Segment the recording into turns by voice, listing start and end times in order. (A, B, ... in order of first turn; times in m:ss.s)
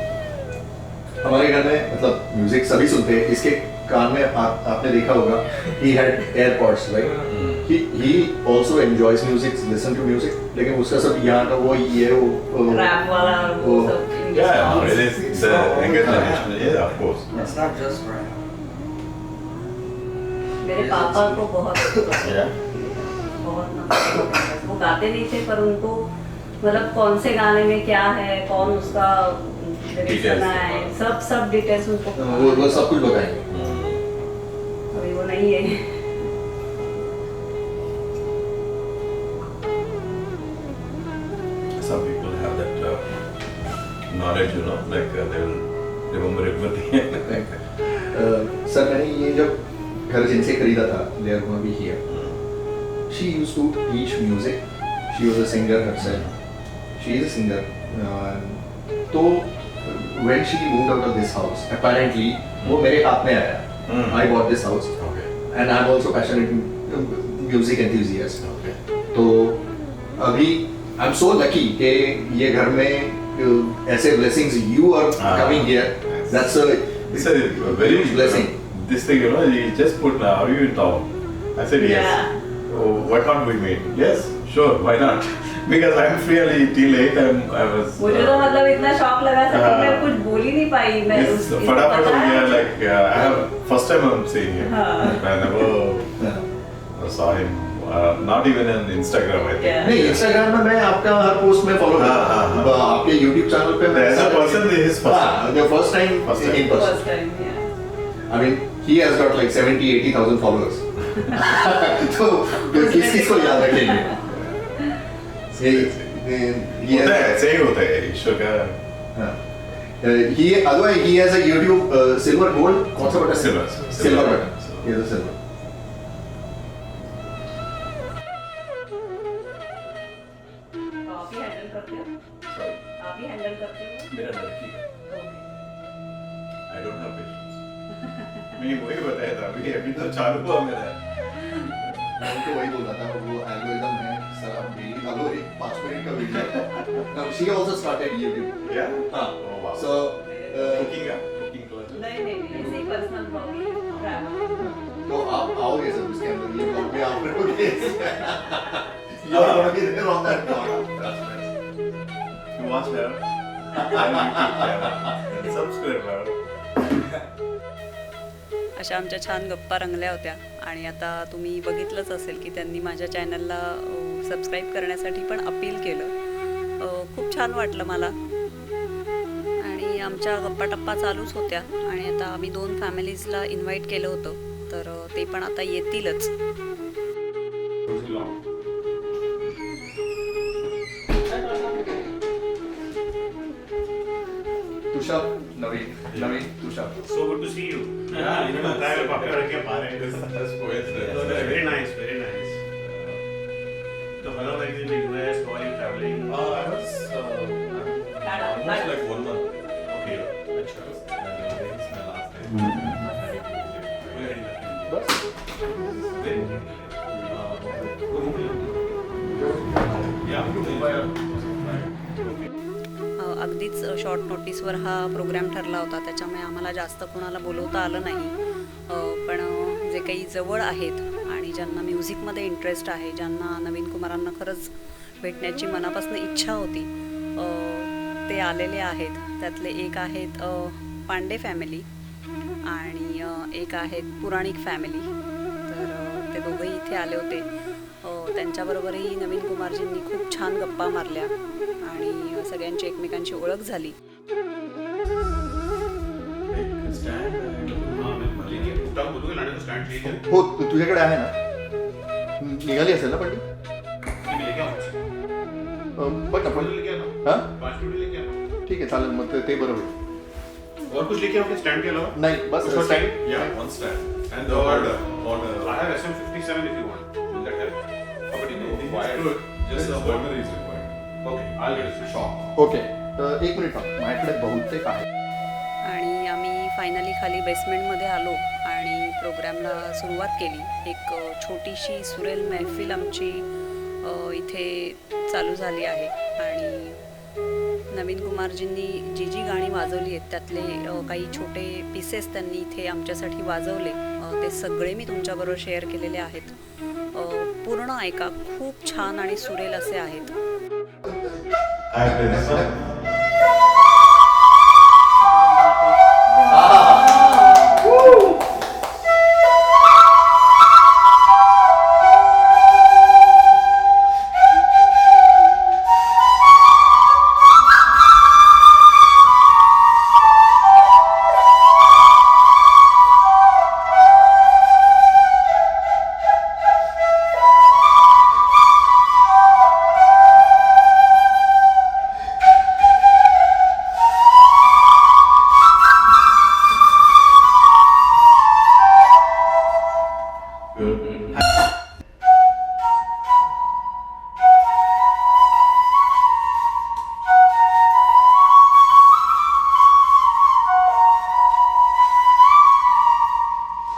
0:01.2-0:13.0 A
0:07.2-0:07.7 B
0:12.6-0:15.1 C
0:13.6-0:14.0 A
0:14.3-0:17.6 B
0:15.1-0:18.4 D
0:16.0-0:16.6 A
0:20.6-0:26.1 C
0:20.7-0:21.4 D
0:22.2-0:22.6 B
0:26.6-0:33.0 C
0:30.0-0:31.0 B
0:32.2-0:33.4 A
0:33.5-0:34.0 B
0:34.9-0:36.2 C
0:41.8-0:43.1 B
0:44.1-0:47.5 B
0:47.2-0:47.5 A
0:48.1-0:52.0 A
0:52.1-0:52.4 B
0:53.1-0:56.2 A
0:56.0-0:56.3 B
0:57.0-1:04.9 A
1:02.6-1:02.9 B
1:03.8-1:04.3 B
1:05.0-1:05.3 B
1:05.5-1:08.4 A
1:08.4-1:08.8 B
1:09.1-1:09.6 A
1:10.2-1:18.5 A
1:15.2-1:16.5 B
1:17.1-1:28.6 B
1:21.8-1:22.3 C
1:28.0-1:32.7 C
1:29.5-1:30.1 B
1:31.1-1:36.2 B
1:34.6-1:35.2 C
1:36.2-1:36.4 A
1:36.9-1:40.2 B
1:39.6-1:40.0 C
1:39.8-1:47.0 A
1:41.9-1:42.8 B
1:43.8-1:45.6 B
1:46.2-1:46.7 B
1:46.7-1:47.7 C
1:48.3-1:54.4 A
1:52.6-1:54.2 C
1:55.5-1:56.1 B
1:55.6-1:57.4 A
1:56.8-1:58.8 B
2:00.0-2:05.3 A
2:03.0-2:05.0 B
2:11.0-2:12.1 C
2:12.5-2:12.8 B
2:13.0-2:14.1 C
2:14.1-2:14.8 B
2:15.1-2:15.4 C
2:16.7-2:17.6 B
2:18.5-2:21.0 B
2:21.5-2:22.3 B
2:22.2-2:28.6 A
2:28.6-2:29.9 B
2:29.1-2:31.0 A
2:30.2-2:30.8 C
2:30.5-2:32.1 B
2:31.9-2:34.5 C
2:32.5-2:32.8 A
2:34.6-2:41.4 A
2:39.2-2:40.6 B
2:42.5-2:46.4 B
2:48.8-2:56.1 C
2:56.8-2:58.1 C
2:59.6-3:06.3 C
3:07.9-3:08.3 E
3:14.9-3:17.0 A
3:16.1-3:16.4 B
3:17.0-3:20.2 E
3:18.1-3:21.8 B
3:20.9-3:22.6 E
3:22.8-3:23.2 B
3:24.2-3:26.6 E
3:26.3-3:30.3 B
3:28.2-3:29.0 C
3:29.9-3:31.0 E
3:30.8-3:34.4 B
3:34.0-3:34.9 E
3:34.9-3:35.2 A
3:36.0-3:36.4 B
3:36.0-3:37.4 E
3:37.1-3:37.9 B
3:38.0-3:38.7 E
3:39.9-3:41.1 B
3:40.2-3:42.5 E
3:43.2-3:48.3 C
3:48.9-4:01.8 C
4:02.6-4:05.1 C
4:05.7-4:07.5 C
4:08.0-4:13.9 C
4:16.5-4:18.8 B
4:17.9-4:20.2 E
4:20.1-4:21.3 A
4:22.4-4:23.4 A
4:24.2-4:24.9 E
4:26.0-4:27.5 A
4:26.4-4:28.4 E
4:28.6-4:29.9 A
4:30.9-4:33.2 E
4:32.1-4:33.5 A
4:32.6-4:35.8 B
4:34.3-4:35.1 E
4:35.6-4:37.8 E
4:37.3-4:37.6 B
4:38.3-4:40.3 E
4:38.4-4:40.9 B
4:41.2-4:42.2 E
4:42.0-4:45.0 A
4:45.8-4:53.5 C
4:54.0-4:57.0 C
4:57.9-5:06.6 C
5:07.1-5:10.3 C
5:11.9-5:13.2 B
5:15.2-5:18.0 C
5:16.5-5:17.2 A
5:17.8-5:18.2 A
5:50.8-5:51.4 B